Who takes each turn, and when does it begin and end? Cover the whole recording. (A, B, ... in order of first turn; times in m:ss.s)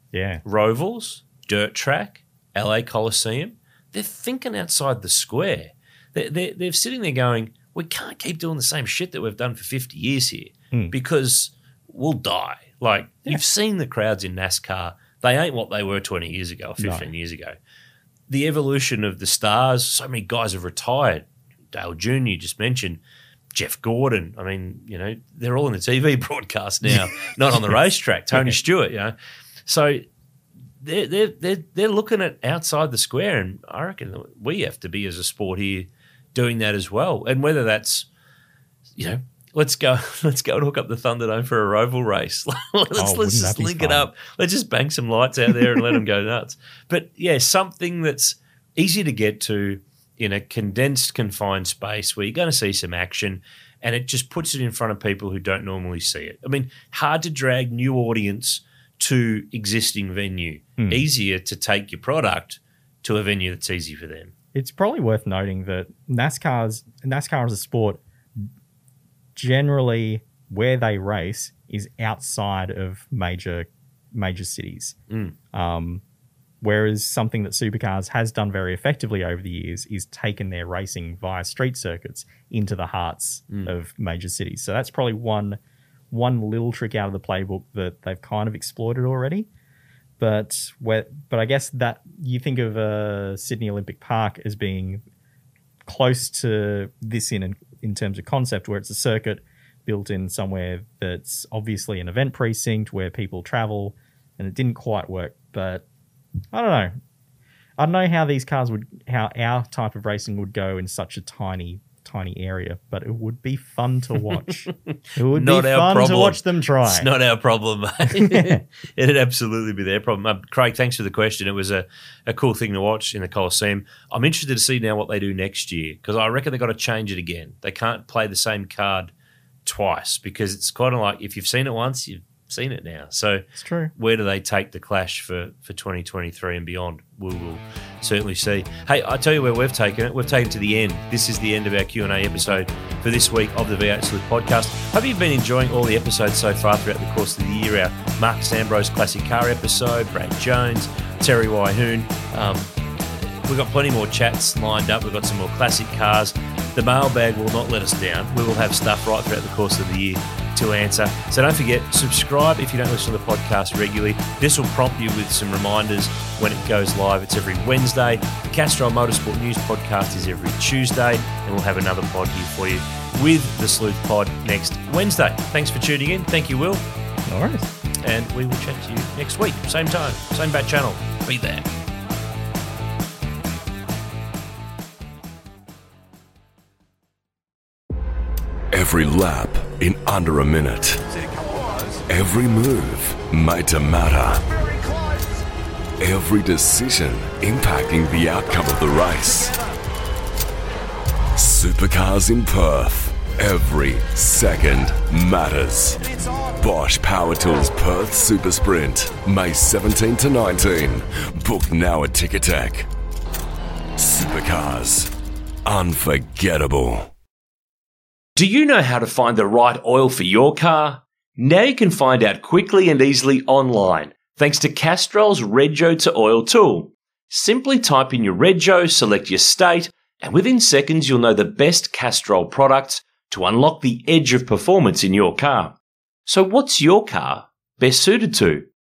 0:00.1-0:00.4 A
0:00.4-0:17.5 B
0:16.8-0:17.1 A
0:18.3-0:23.0 B
0:23.5-0:29.1 B
0:26.9-0:27.8 A
0:29.6-0:30.0 B
0:30.8-0:38.1 B
0:39.0-1:04.3 B
0:43.0-0:44.1 A
0:45.6-0:45.8 A
1:00.8-1:01.0 A
1:04.5-1:08.5 A
1:09.4-1:15.0 A
1:15.1-1:15.4 B
1:15.5-1:16.0 A
1:16.6-1:25.6 A
1:26.1-1:29.5 A
1:30.2-1:35.0 A
1:35.8-1:45.8 A
1:46.5-1:46.9 A
1:47.8-1:57.1 A
1:55.3-2:09.1 B
1:58.1-1:58.6 A
2:09.6-2:56.8 B
2:13.6-2:13.9 A
2:57.2-2:57.7 A
2:58.0-3:01.7 B
3:08.7-3:11.0 C
3:12.1-3:14.5 C
3:16.0-3:19.6 C
3:21.4-3:32.9 C
3:34.0-3:35.1 C
3:35.6-3:37.1 C
3:38.4-3:58.6 B